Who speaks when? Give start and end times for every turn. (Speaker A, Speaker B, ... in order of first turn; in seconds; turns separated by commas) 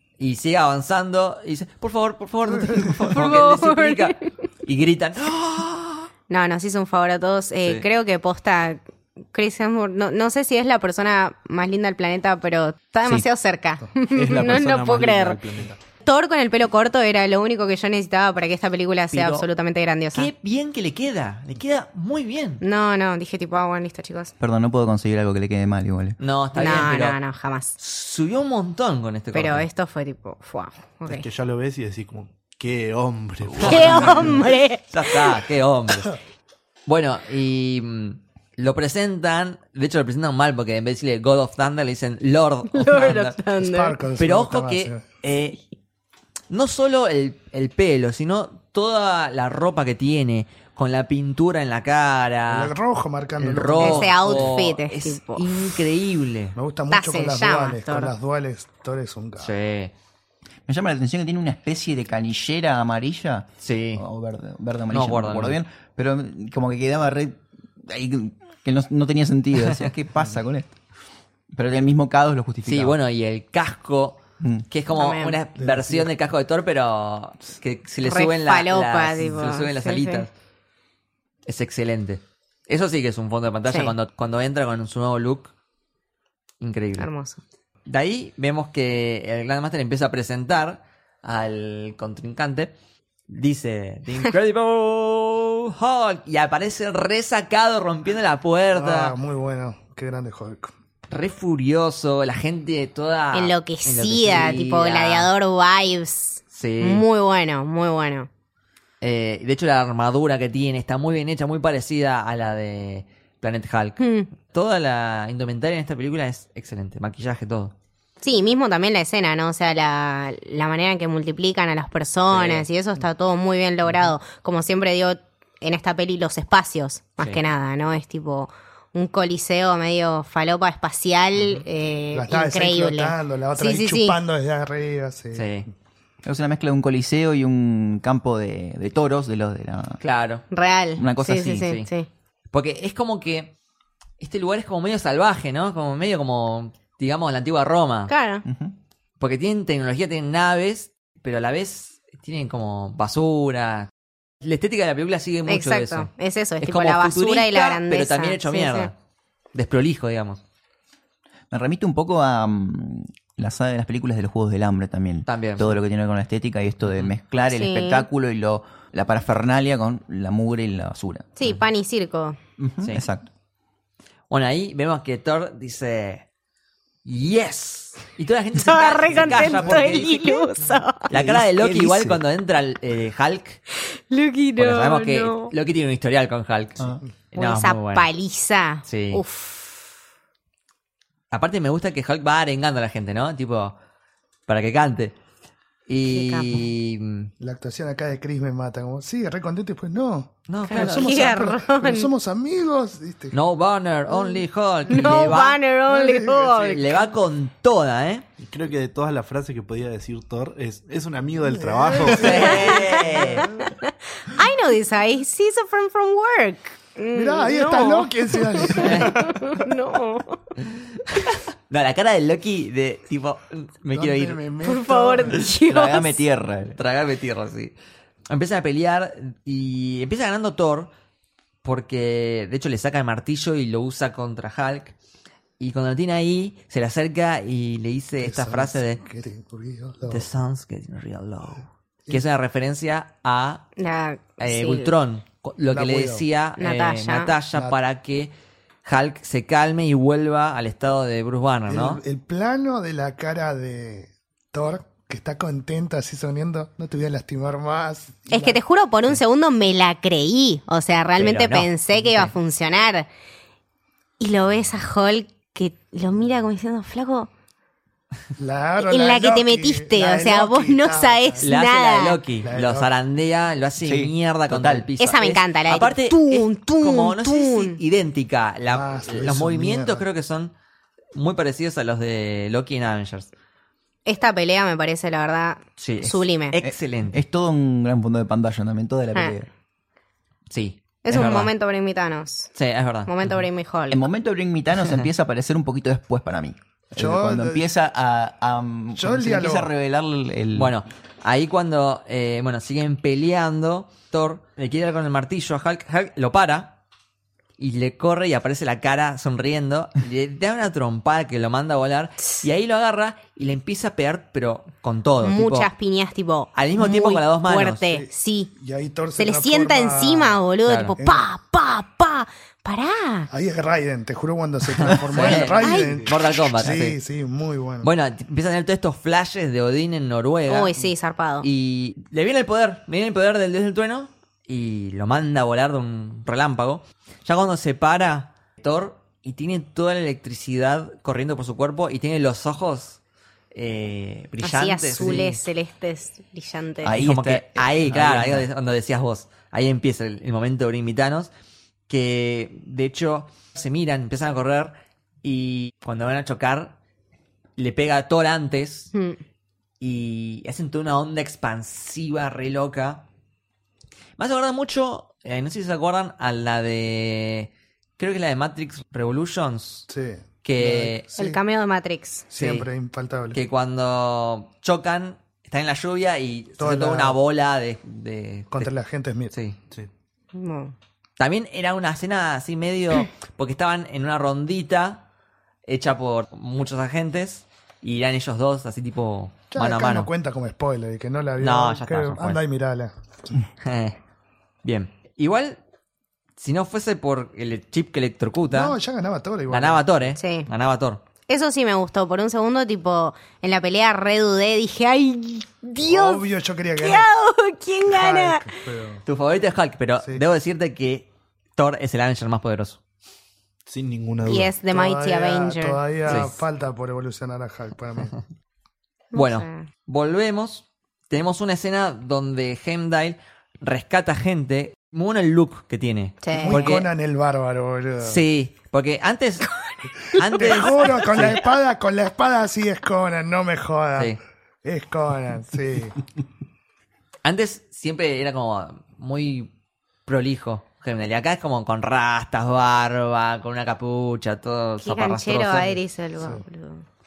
Speaker A: 0.2-6.1, Speaker B: 3.1-4.2, Speaker B: 6.3-8.8, Speaker B: 9.3-15.4, Speaker C: 14.1-15.8, Speaker B: 16.0-20.3, Speaker A: 19.1-19.5, Speaker A: 20.1-22.6, Speaker B: 22.6-24.3, Speaker D: 24.4-26.2, Speaker A: 26.2-27.2, Speaker B: 26.5-27.8, Speaker A: 27.8-29.6, Speaker B: 29.3-31.2, Speaker C: 31.1-34.4, Speaker A: 33.5-36.2, Speaker B: 33.6-35.3, Speaker A: 36.9-43.4, Speaker B: 42.7-44.0, Speaker E: 43.6-45.0, Speaker A: 44.2-45.6, Speaker A: 46.5-52.7, Speaker E: 52.5-54.5, Speaker A: 53.4-56.5, Speaker B: 53.8-55.6, Speaker E: 56.5-59.5, Speaker B: 56.9-58.1, Speaker A: 59.4-59.9, Speaker D: 60.7-70.7, Speaker A: 63.6-64.0, Speaker A: 64.9-65.6, Speaker A: 69.6-69.9, Speaker D: 71.5-73.0, Speaker A: 72.7-80.3, Speaker D: 74.4-74.7, Speaker B: 74.9-75.4, Speaker E: 75.6-76.1, Speaker B: 78.0-80.2, Speaker A: 81.5-85.5, Speaker A: 86.6-87.1, Speaker B: 87.0-87.4, Speaker A: 87.8-92.7, Speaker A: 93.3-99.2, Speaker E: 98.7-100.7, Speaker A: 101.1-105.3, Speaker B: 103.3-108.3, Speaker A: 106.5-107.0, Speaker A: 109.0-117.7, Speaker B: 114.0-114.3, Speaker B: 118.2-134.2, Speaker A: 122.3-122.7, Speaker A: 123.8-124.1, Speaker A: 131.4-131.6, Speaker E: 132.1-135.6, Speaker A: 135.3-135.7, Speaker D: 136.2-140.0, Speaker A: 140.0-140.4, Speaker B: 140.5-142.1, Speaker D: 141.0-141.8, Speaker A: 141.6-141.9, Speaker A: 142.5-143.5, Speaker A: 144.2-148.1, Speaker B: 148.1-148.4, Speaker D: 148.4-148.7, Speaker A: 149.2-153.9, Speaker A: 154.4-156.1, Speaker B: 155.5-158.9, Speaker A: 156.6-158.9, Speaker A: 159.5-160.4, Speaker D: 161.5-171.3, Speaker A: 165.3-165.8, Speaker A: 166.9-167.1, Speaker B: 167.5-168.1, Speaker B: 171.4-172.4, Speaker D: 172.6-173.3, Speaker A: 174.3-176.2, Speaker A: 177.0-180.5, Speaker B: 178.6-181.1, Speaker E: 179.5-179.8, Speaker A: 181.1-183.6, Speaker D: 181.1-182.2, Speaker B: 183.8-185.5, Speaker A: 184.6-188.1, Speaker B: 187.3-189.8, Speaker A: 188.8-189.2, Speaker A: 191.3-193.8, Speaker A: 194.5-195.2, Speaker A: 195.9-197.3, Speaker B: 196.1-196.7, Speaker E: 197.4-203.3, Speaker A: 200.5-201.4, Speaker B: 200.7-202.1, Speaker A: 203.3-205.6, Speaker B: 204.2-206.8, Speaker E: 205.9-207.0, Speaker A: 206.7-208.2, Speaker C: 208.4-212.7, Speaker E: 211.6-213.7, Speaker A: 212.1-213.5, Speaker B: 212.2-220.4, Speaker E: 217.1-219.6, Speaker A: 218.8-219.1, Speaker A: 220.9-224.4, Speaker E: 223.9-225.5, Speaker B: 224.6-226.2, Speaker D: 225.7-226.8, Speaker A: 226.8-227.7, Speaker A: 228.3-230.9, Speaker A: 231.6-234.9, Speaker A: 235.6-239.0, Speaker E: 238.2-240.3, Speaker A: 240.1-243.7, Speaker B: 243.8-244.9, Speaker A: 244.4-248.3, Speaker E: 245.7-246.2, Speaker B: 246.6-247.3, Speaker A: 248.8-252.0, Speaker E: 251.7-258.6, Speaker B: 258.3-263.1, Speaker A: 261.2-262.3, Speaker B: 264.2-267.3, Speaker E: 268.4-271.4, Speaker B: 268.8-272.2, Speaker A: 271.4-280.5, Speaker E: 272.4-272.9, Speaker D: 273.8-274.9, Speaker B: 275.0-277.8, Speaker E: 278.7-280.0, Speaker A: 281.1-283.3, Speaker B: 284.1-286.6, Speaker A: 285.8-287.2, Speaker D: 286.6-289.5, Speaker A: 290.5-291.5, Speaker B: 291.0-292.5, Speaker A: 292.5-293.4, Speaker B: 293.1-294.0, Speaker D: 293.9-300.8, Speaker A: 294.8-295.1, Speaker E: 296.9-297.6, Speaker E: 299.0-299.7, Speaker A: 300.5-306.8, Speaker A: 307.6-315.7, Speaker B: 315.2-318.5, Speaker A: 316.5-318.0, Speaker E: 317.9-320.4, Speaker B: 319.2-323.3, Speaker A: 320.6-320.9, Speaker E: 321.0-321.2, Speaker E: 323.3-327.9, Speaker A: 324.7-327.0, Speaker B: 325.2-326.0, Speaker A: 327.8-330.9, Speaker B: 330.5-331.5, Speaker A: 331.4-343.0, Speaker A: 343.5-345.4, Speaker B: 344.4-346.9, Speaker D: 346.8-348.5, Speaker A: 346.9-351.3, Speaker A: 351.9-356.8, Speaker A: 357.6-358.9, Speaker A: 359.8-363.1, Speaker A: 364.2-369.9, Speaker E: 369.9-371.4, Speaker A: 370.4-371.0, Speaker B: 371.1-372.3, Speaker E: 372.3-373.4, Speaker A: 372.4-372.7, Speaker A: 373.3-378.7, Speaker E: 376.6-377.2, Speaker E: 378.5-379.3, Speaker A: 379.3-379.6, Speaker B: 380.3-380.7, Speaker A: 381.2-385.0, Speaker A: 385.6-390.1, Speaker E: 389.5-392.9, Speaker A: 391.4-392.4, Speaker A: 393.6-394.0, Speaker A: 394.6-395.6, Speaker A: 396.4-398.8, Speaker E: 398.5-400.2, Speaker A: 399.5-401.0, Speaker B: 400.2-400.5, Speaker B: 401.3-406.2, Speaker E: 405.8-407.1, Speaker B: 406.8-408.5, Speaker E: 407.9-409.0, Speaker A: 409.1-412.8, Speaker C: 413.7-414.5, Speaker B: 414.2-415.8, Speaker E: 414.7-418.1, Speaker A: 416.1-416.4, Speaker B: 419.1-419.7, Speaker A: 419.1-426.9, Speaker B: 426.2-426.8, Speaker E: 426.4-428.2, Speaker A: 428.0-429.5, Speaker B: 429.6-430.7, Speaker E: 430.1-436.0, Speaker A: 430.1-431.4, Speaker A: 437.2-439.5, Speaker A: 440.1-445.7, Speaker B: 444.8-446.8, Speaker E: 445.7-446.4